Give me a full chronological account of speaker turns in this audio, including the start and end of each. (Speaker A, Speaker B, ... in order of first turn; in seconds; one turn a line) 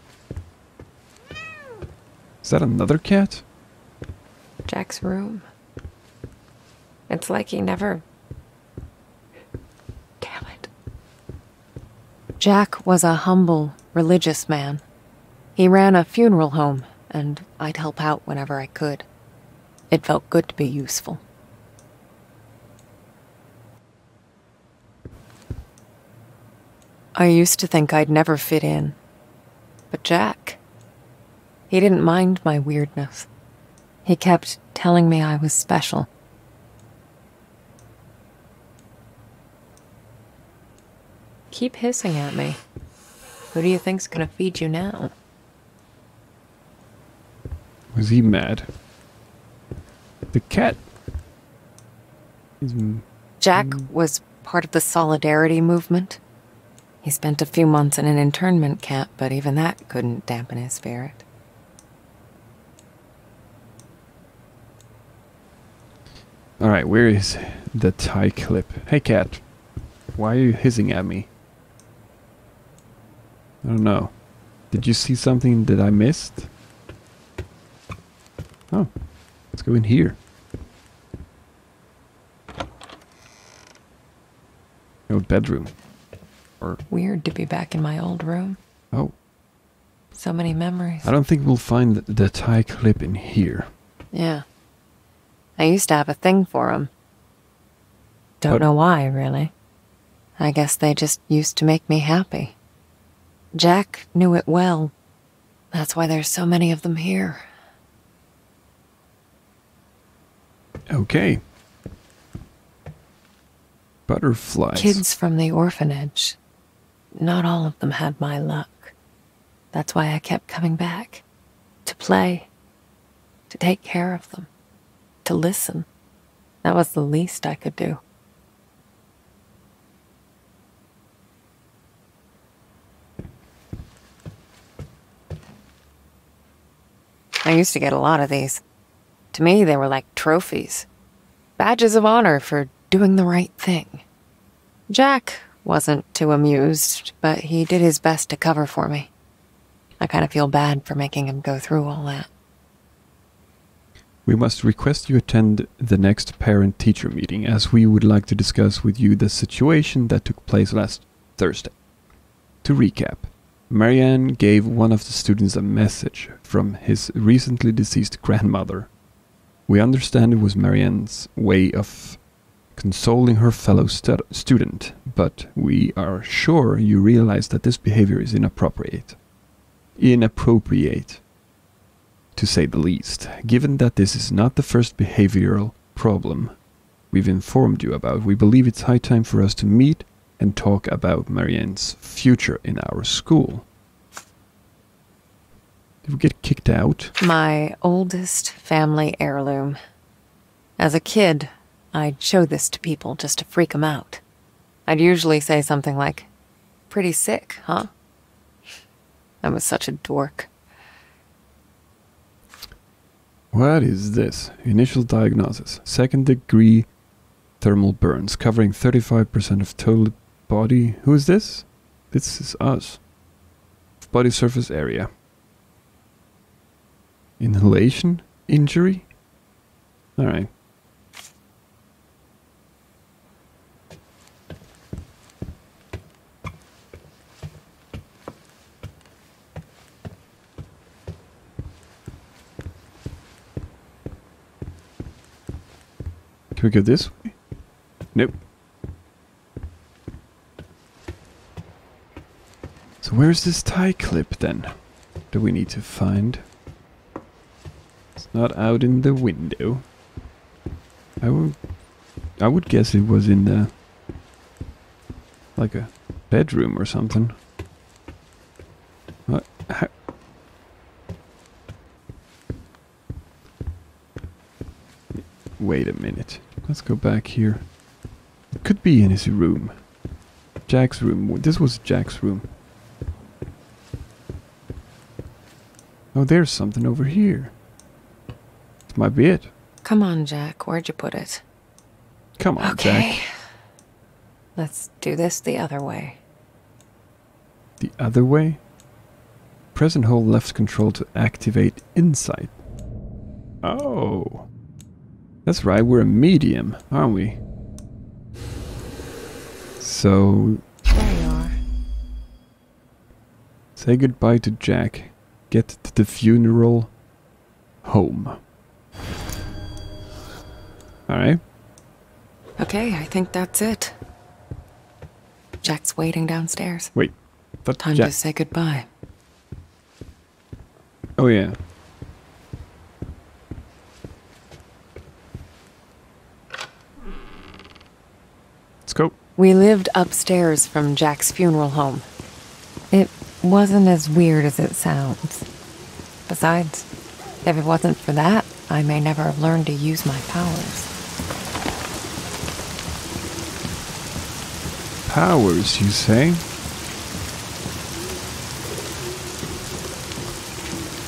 Speaker A: 2.4-3.4
Speaker B: 4.7-5.5
Speaker B: 7.1-8.0
Speaker B: 10.2-10.7
Speaker B: 12.4-14.8
Speaker B: 15.6-19.1
Speaker B: 19.9-21.2
Speaker B: 27.1-29.0
Speaker B: 29.9-30.6
Speaker B: 31.7-33.3
Speaker B: 34.0-36.1
Speaker B: 41.5-42.6
Speaker B: 43.5-45.1
Speaker A: 47.9-48.7
Speaker A: 50.3-50.8
Speaker A: 52.6-53.9
Speaker B: 53.4-56.2
Speaker B: 57.0-61.2
Speaker A: 66.6-69.4
Speaker A: 70.2-71.3
Speaker A: 73.6-74.1
Speaker A: 74.7-76.5
Speaker A: 79.5-80.2
Speaker A: 85.1-85.7
Speaker B: 86.9-88.6
Speaker B: 90.1-91.1
Speaker A: 91.0-93.7
Speaker B: 94.1-94.4
Speaker B: 95.6-96.9
Speaker B: 98.4-99.5
Speaker B: 100.4-102.5
Speaker B: 103.5-104.9
Speaker B: 105.7-107.5
Speaker A: 110.9-111.4
Speaker A: 114.1-115.0
Speaker B: 114.7-116.4
Speaker B: 117.1-118.9
Speaker B: 119.7-121.2
Speaker B: 121.8-122.5
Speaker B: 123.5-124.5
Speaker B: 125.2-125.9
Speaker B: 126.6-128.0
Speaker B: 137.4-138.6
Speaker B: 139.3-140.9
Speaker B: 141.6-144.0
Speaker B: 144.9-149.1
Speaker B: 150.0-152.3
Speaker A: 154.2-161.7
Speaker A: 162.6-168.9
Speaker A: 169.7-172.2
Speaker A: 172.7-179.2
Speaker A: 180.0-181.2
Speaker A: 182.3-186.5
Speaker A: 187.1-193.7
Speaker A: 196.0-197.1
Speaker B: 197.2-199.8
Speaker B: 200.8-204.2
Speaker B: 204.9-206.3
Speaker B: 206.9-207.9
Speaker B: 209.4-210.5
Speaker A: 213.5-216.9
Speaker A: 217.6-223.0
Speaker A: 224.1-225.1
Speaker A: 227.4-229.1
Speaker A: 230.2-230.5
Speaker A: 246.6-247.3
Speaker A: 253.0-254.8
Speaker A: 255.3-256.4
Speaker A: 258.2-259.9
Speaker A: 261.2-261.6
Speaker A: 262.4-263.7
Speaker A: 265.6-267.4
Speaker A: 269.3-269.9
Speaker A: 275.1-277.6
Speaker A: 278.6-279.8
Speaker A: 280.7-282.5
Speaker A: 286.1-287.5
Speaker A: 288.9-289.5
Speaker B: 289.8-291.4
Speaker A: 292.4-293.1
Speaker B: 292.6-293.3
Speaker B: 294.6-296.2
Speaker A: 297.8-298.6
Speaker A: 299.7-302.5
Speaker A: 303.6-304.5
Speaker A: 305.4-307.4
Speaker A: 309.8-310.6
Speaker B: 310.9-311.6
Speaker A: 313.8-316.9
Speaker A: 317.8-318.4
Speaker A: 321.1-321.4
Speaker B: 322.6-323.9
Speaker B: 325.6-326.9
Speaker A: 326.9-328.1
Speaker B: 327.8-328.9
Speaker A: 331.2-331.6
Speaker A: 338.9-339.1
Speaker B: 339.4-342.1
Speaker B: 342.9-345.4
Speaker B: 346.3-346.9
Speaker B: 347.4-350.9
Speaker A: 355.1-356.4